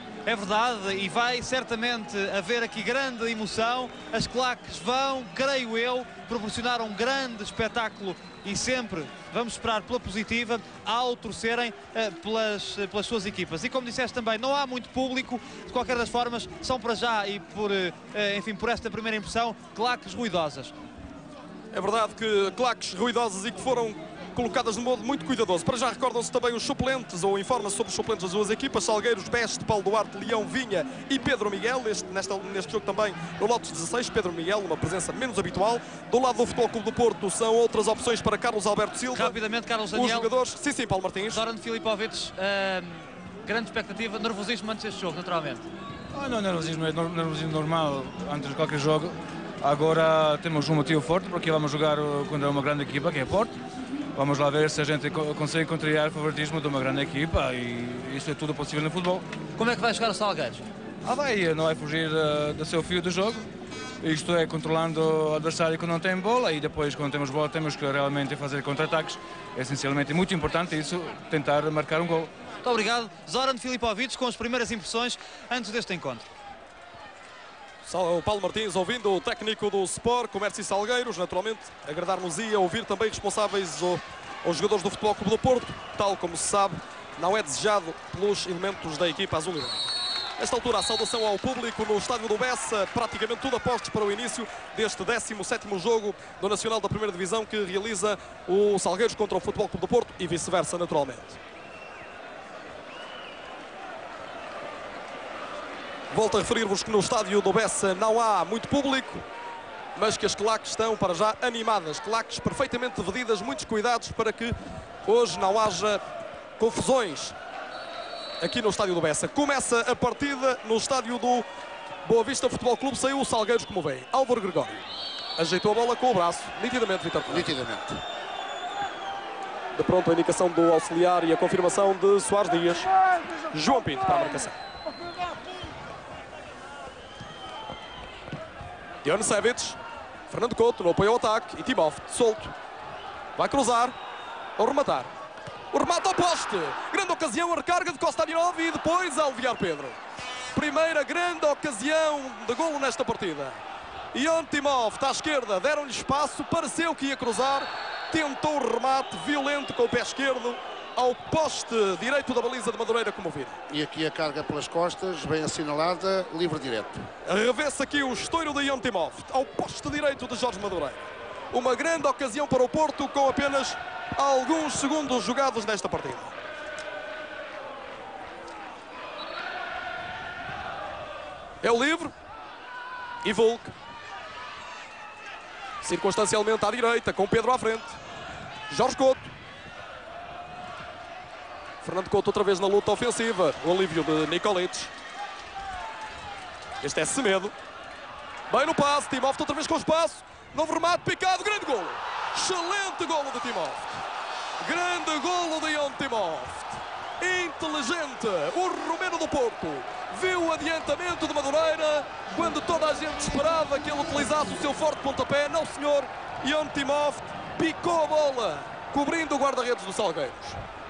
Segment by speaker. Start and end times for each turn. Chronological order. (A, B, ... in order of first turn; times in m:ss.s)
0:00.2-0:20.7 A
0:21.7-0:39.4 B
0:39.1-0:40.3 A
0:39.9-0:41.4 B
0:41.3-0:45.7 A
0:46.1-0:53.5 C
0:54.1-0:59.2 C
0:59.6-1:00.6 A
1:01.0-1:03.4 C
1:04.0-1:12.3 C
1:12.6-1:16.2 A
1:17.8-1:41.4 B
1:46.1-1:49.2 B
1:49.9-1:56.0 B
1:56.6-1:57.3 B
1:58.4-2:01.4 B
2:02.0-2:07.5 B
2:07.2-2:08.0 D
2:09.7-2:12.9 B
2:13.5-2:14.6 B
2:19.0-2:19.8 B
2:20.3-2:22.5 B
2:23.3-2:24.0 B
2:24.6-2:25.1 B
2:25.7-2:30.0 B
2:30.5-2:33.6 B
2:34.1-2:43.6 B
2:43.7-2:47.1 D
2:47.2-2:56.3 B
3:01.6-3:02.1 B
3:03.2-3:03.7 B
3:05.8-3:08.0 B
3:08.7-3:09.3 B
3:11.8-3:14.9 B
3:16.8-3:17.5 B
3:18.5-3:24.0 B
3:24.6-3:40.6 B